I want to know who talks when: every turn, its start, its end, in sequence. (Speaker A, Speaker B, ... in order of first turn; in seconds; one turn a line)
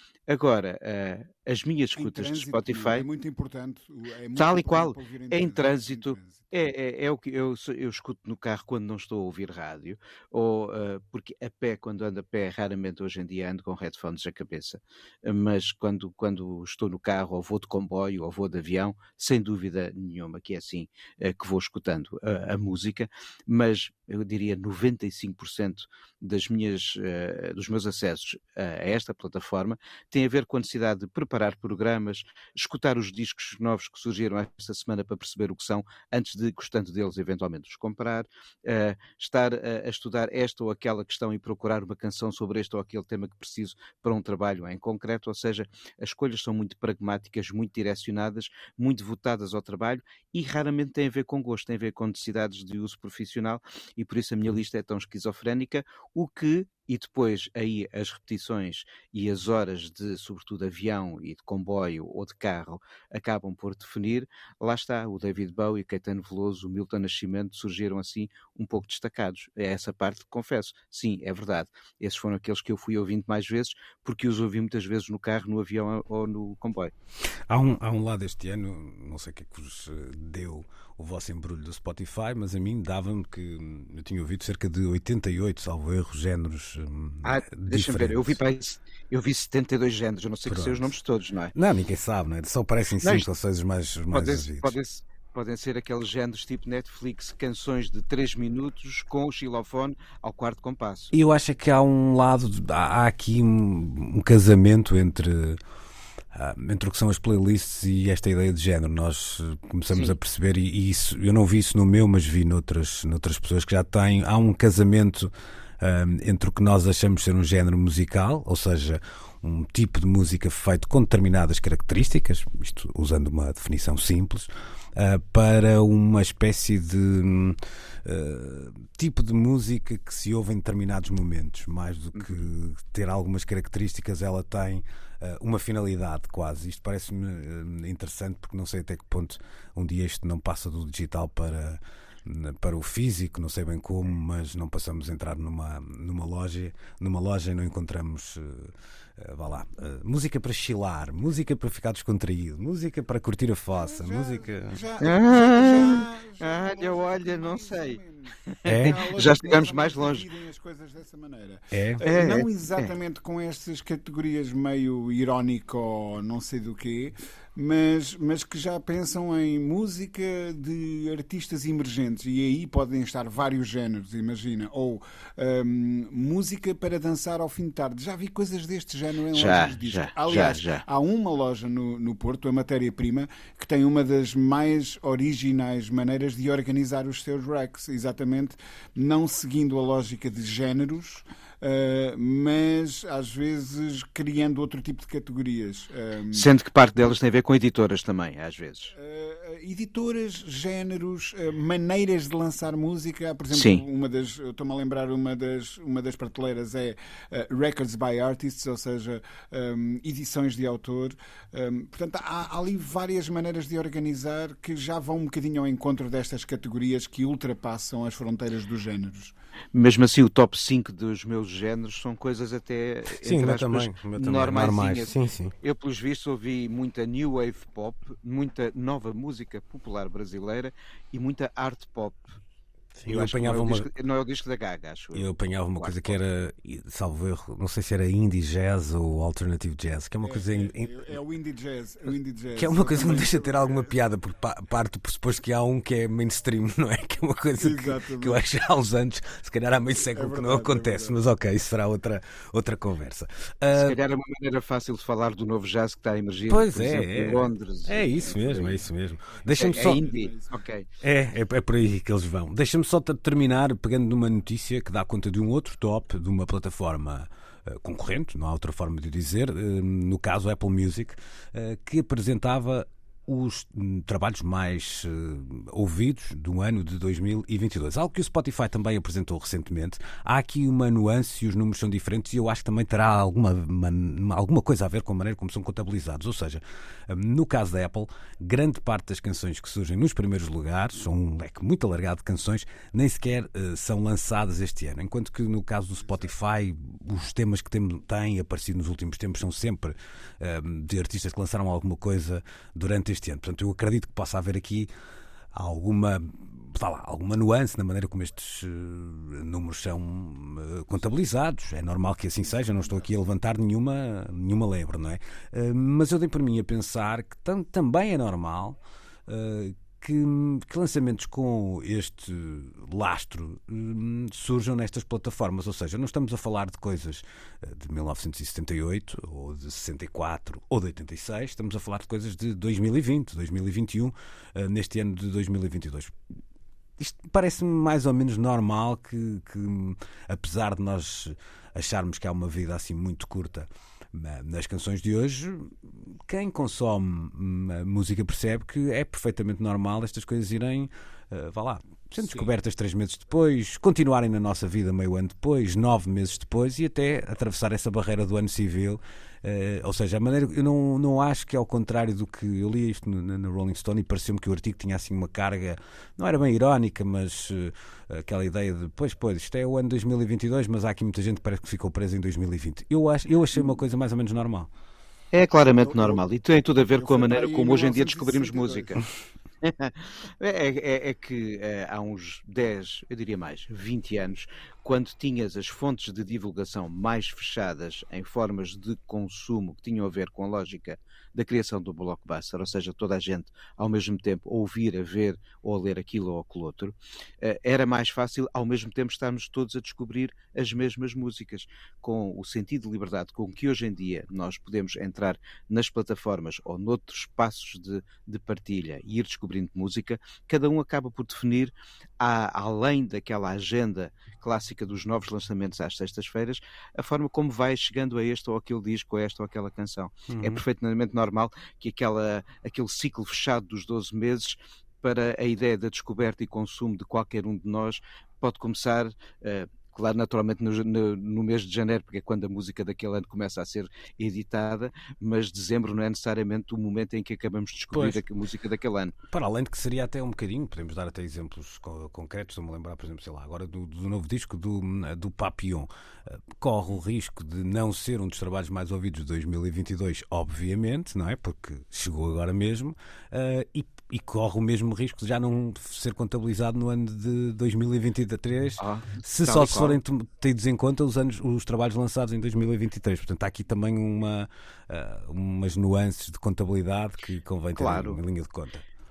Speaker A: 0.3-3.1
Speaker B: 1.9-6.5
Speaker A: 4.4-76.9
Speaker C: 77.5-88.4
Speaker A: 87.2-91.5
Speaker C: 90.5-90.9
Speaker C: 91.5-94.8
Speaker A: 94.1-101.1
Speaker C: 101.1-105.6
Speaker C: 106.3-154.8
Speaker A: 132.2-132.4
Speaker B: 153.8-196.5
Speaker A: 155.0-160.2
Speaker C: 158.7-159.0
Speaker C: 161.7-162.0
Speaker A: 162.0-162.9
Speaker A: 179.3-180.8
Speaker A: 196.3-198.9
Speaker B: 198.9-219.3
Speaker A: 203.5-203.8
Speaker A: 219.7-232.4
Speaker C: 223.2-225.5
Speaker C: 233.0-233.9
Speaker A: 233.1-236.2
Speaker C: 235.1-241.1
Speaker B: 240.2-243.9
Speaker C: 242.6-254.0
Speaker B: 247.6-248.4
Speaker B: 250.1-251.2
Speaker A: 253.7-258.9
Speaker C: 256.5-260.0
Speaker B: 259.5-260.6
Speaker A: 259.6-260.9
Speaker C: 261.0-304.9
Speaker C: 305.5-336.1
Speaker C: 337.0-374.7
Speaker A: 375.3-379.0
Speaker B: 375.8-376.2
Speaker B: 377.0-379.1
Speaker A: 379.6-439.1
Speaker C: 420.3-420.6
Speaker C: 437.9-438.2
Speaker C: 439.3-468.9
Speaker A: 458.8-460.0
Speaker A: 467.8-468.2